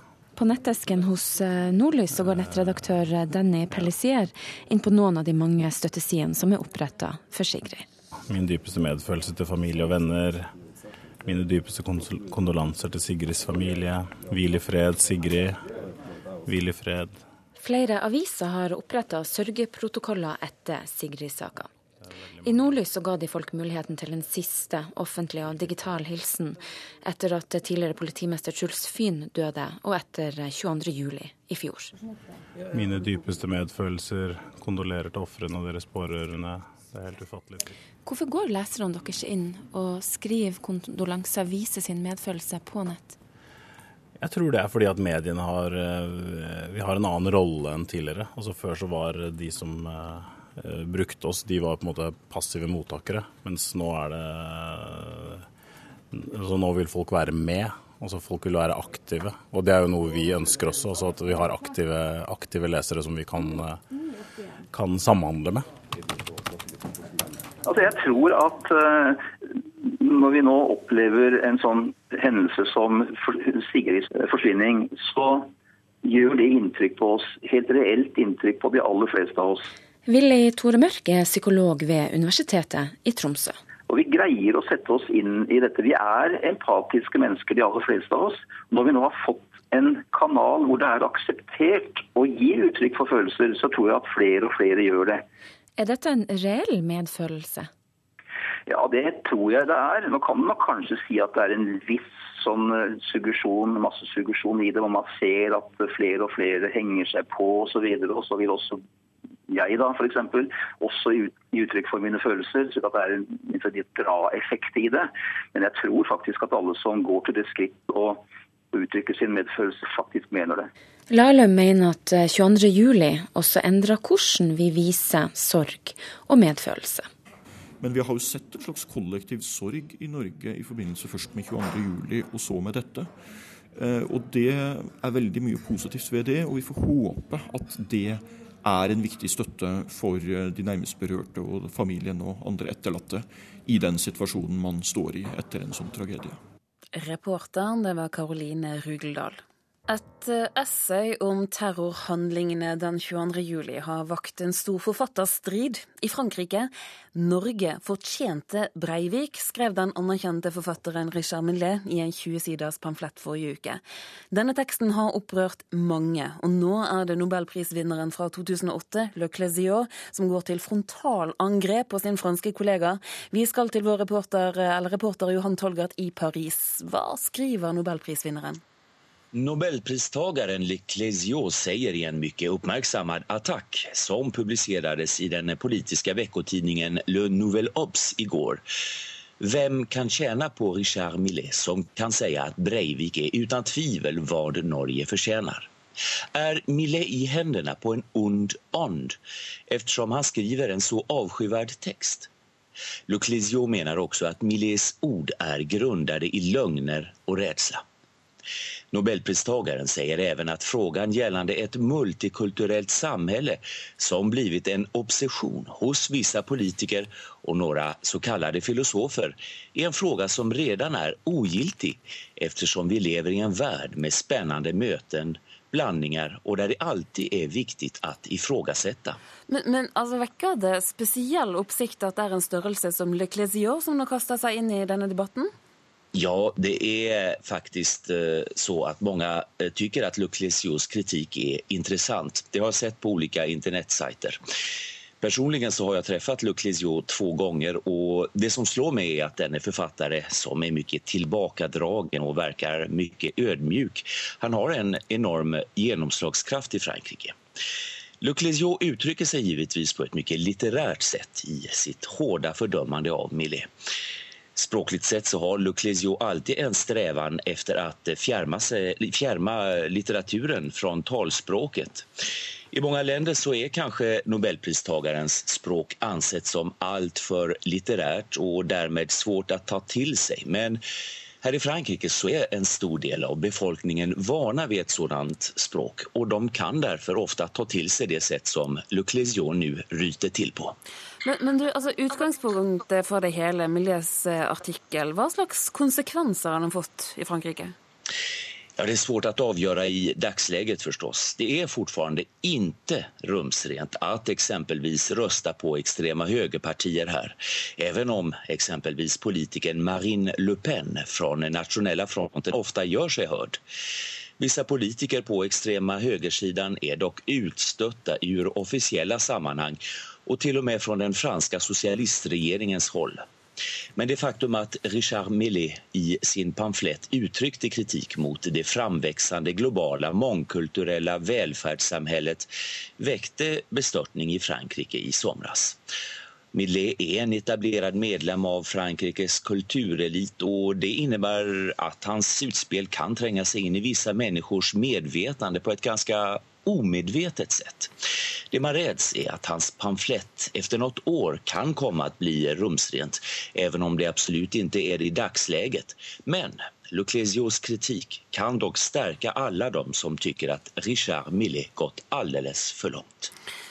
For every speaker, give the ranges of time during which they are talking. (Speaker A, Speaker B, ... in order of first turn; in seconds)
Speaker A: 0.4-7.9, 17.6-21.7, 22.4-31.9, 38.0-43.2, 80.1-83.6, 95.8-97.7, 121.1-127.1
Speaker B: 8.3-10.5, 11.2-15.6, 16.5-17.2, 32.7-37.5, 44.2-55.4, 56.1-63.8, 64.7-65.7
Speaker C: 67.7-75.5, 76.0-79.7, 83.9-95.2, 98.7-108.8, 109.5-120.7
Speaker D: 127.8-133.1, 133.7-146.4
Speaker E: 146.9-178.6, 229.5-235.5, 291.2-297.7
Speaker F: 179.3-188.6, 189.4-195.7, 196.3-199.2, 199.7-202.3, 203.1-207.8, 208.9-229.2, 236.1-244.4, 245.2-257.4, 258.2-263.7, 264.6-272.1, 272.7-280.8, 281.4-290.8, 298.8-313.6, 314.4-323.2, 324.0-335.8, 336.5-347.9, 348.5-363.3